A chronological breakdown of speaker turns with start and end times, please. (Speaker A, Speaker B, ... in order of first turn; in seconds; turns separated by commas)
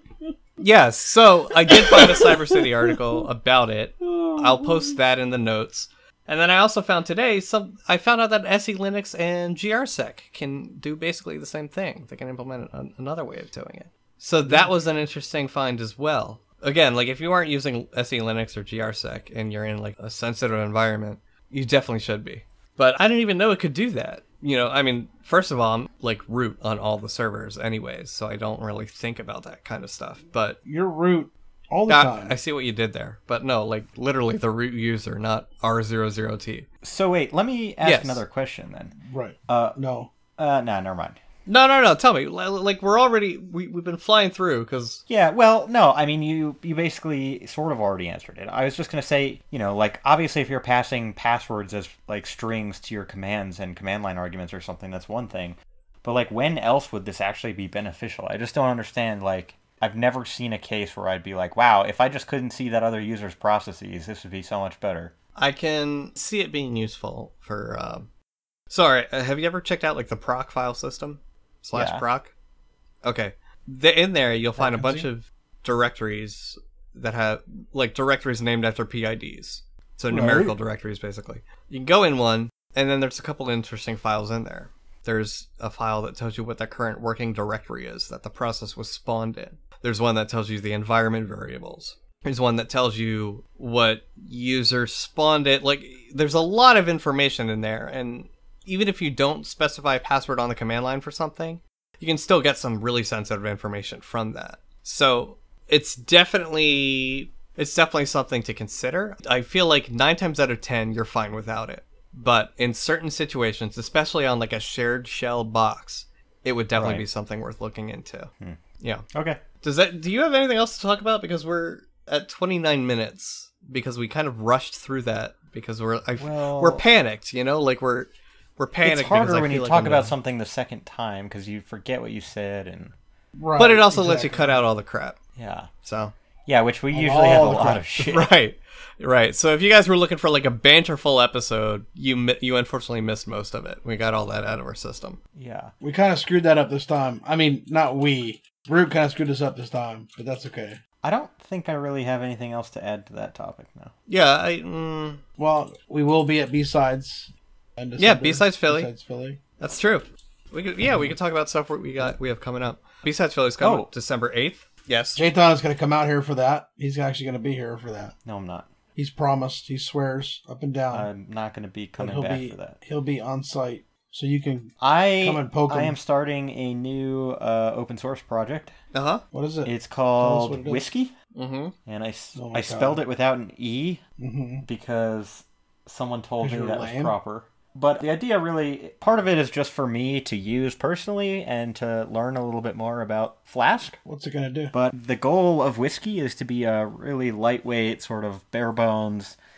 Speaker A: 0.6-30.6, Speaker B: 1.7-3.0, Speaker B: 4.0-5.0, Speaker B: 30.6-32.4, Speaker A: 31.9-36.6, Speaker C: 36.8-39.0, Speaker A: 37.8-38.2, Speaker B: 39.0-40.1, Speaker C: 39.5-39.8, Speaker C: 40.3-41.2, Speaker A: 41.5-45.0, Speaker C: 45.1-65.1, Speaker A: 65.3-68.1, Speaker A: 68.7-72.3, Speaker C: 71.7-72.0, Speaker A: 73.0-119.0, Speaker B: 74.6-75.1, Speaker C: 80.1-80.5, Speaker C: 116.7-117.0, Speaker C: 119.1-119.4, Speaker A: 119.6-130.1, Speaker C: 126.2-126.8, Speaker C: 128.8-132.9, Speaker B: 133.3-134.6, Speaker A: 133.6-135.2, Speaker C: 135.3-135.7, Speaker A: 135.8-136.1, Speaker C: 136.5-138.3, Speaker B: 136.9-137.8, Speaker A: 138.0-145.2, Speaker C: 145.3-145.7, Speaker B: 145.8-150.8, Speaker C: 151.0-153.9, Speaker A: 154.1-155.2, Speaker B: 155.4-159.4, Speaker A: 158.0-158.9, Speaker A: 159.6-165.2, Speaker C: 163.6-163.9, Speaker B: 165.1-168.1, Speaker C: 168.2-168.7, Speaker B: 168.9-171.1, Speaker C: 170.9-172.8, Speaker B: 172.0-175.9, Speaker C: 174.8-178.7, Speaker A: 178.9-179.2, Speaker B: 179.3-180.8, Speaker C: 179.6-181.1, Speaker A: 181.3-181.7, Speaker C: 181.8-184.0, Speaker B: 182.3-183.0, Speaker B: 184.2-184.7, Speaker C: 184.6-194.0, Speaker B: 186.4-187.1, Speaker B: 194.0-194.7, Speaker C: 194.7-199.4